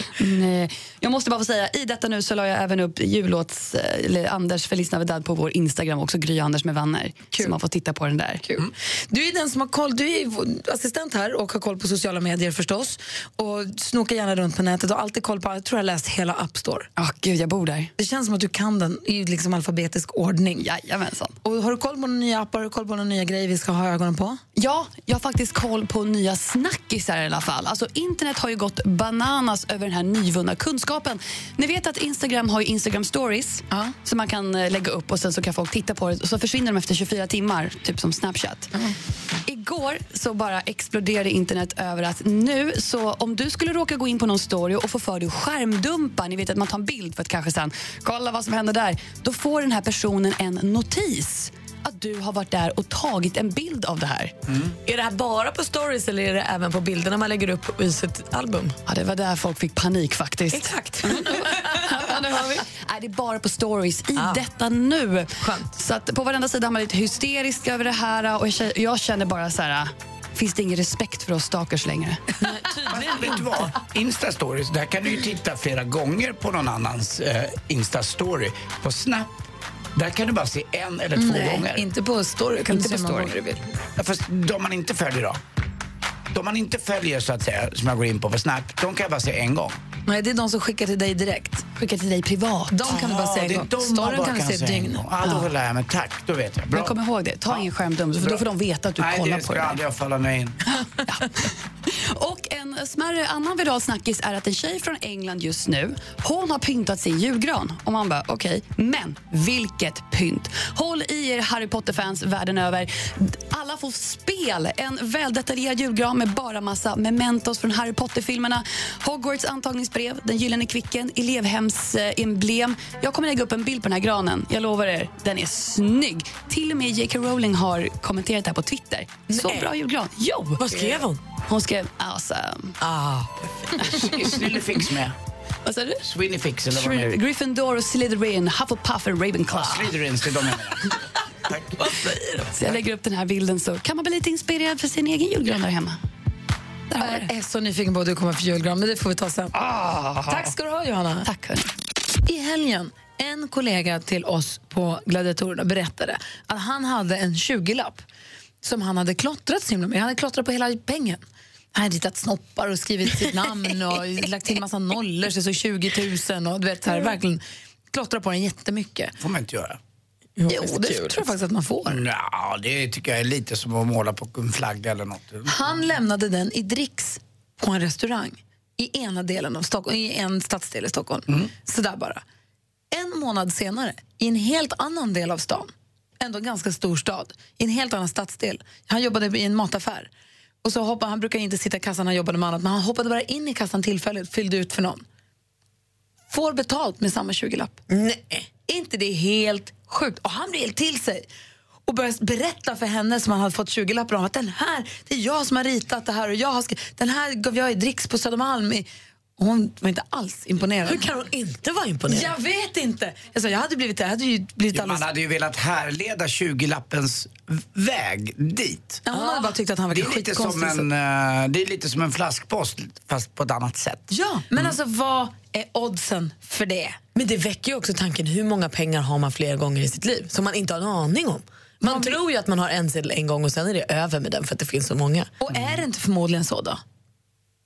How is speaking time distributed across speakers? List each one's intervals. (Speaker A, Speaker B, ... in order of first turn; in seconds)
Speaker A: 0.2-8.5, 17.0-17.9, 20.6-21.4, 24.6-38.7, 39.5-54.3, 58.9-72.2, 82.7-83.3, 91.8-92.8, 95.2-95.5, 96.7-99.8, 101.0-132.8, 135.7-136.0, 136.7-139.9, 142.5-146.0, 146.9-147.3, 149.6-150.5, 151.2-151.7
Speaker B: 8.5-16.9, 18.0-20.7, 21.4-24.4, 81.2-83.6, 90.1-91.7, 92.7-95.1, 147.0-149.6, 150.3-151.3, 152.3-158.1, 158.6-161.2, 161.7-169.1, 170.5-172.1, 175.5-182.2, 182.9-190.1, 190.6-195.0, 196.3-197.8, 198.7-201.3, 201.9-208.9, 209.4-211.1, 212.1-215.1, 219.1-220.9, 224.1-227.0, 231.8-232.2, 235.4-236.8
Speaker C: 54.9-58.8, 60.5-62.0, 64.2-64.5, 65.4-65.7, 72.4-73.7, 129.3-129.7, 130.6-131.2, 132.8-133.9, 141.8-142.4, 170.4-171.3, 197.9-198.5, 210.9-212.3, 219.1-219.5, 227.2-235.3
Speaker D: 72.9-79.3, 80.0-81.9, 84.0-85.4, 86.3-89.8, 92.9-97.0, 97.5-100.6, 133.8-135.2, 136.0-137.2, 139.5-141.0, 141.5-141.9, 169.2-169.8, 171.9-175.6, 214.7-219.1, 219.9-224.8, 235.5-235.8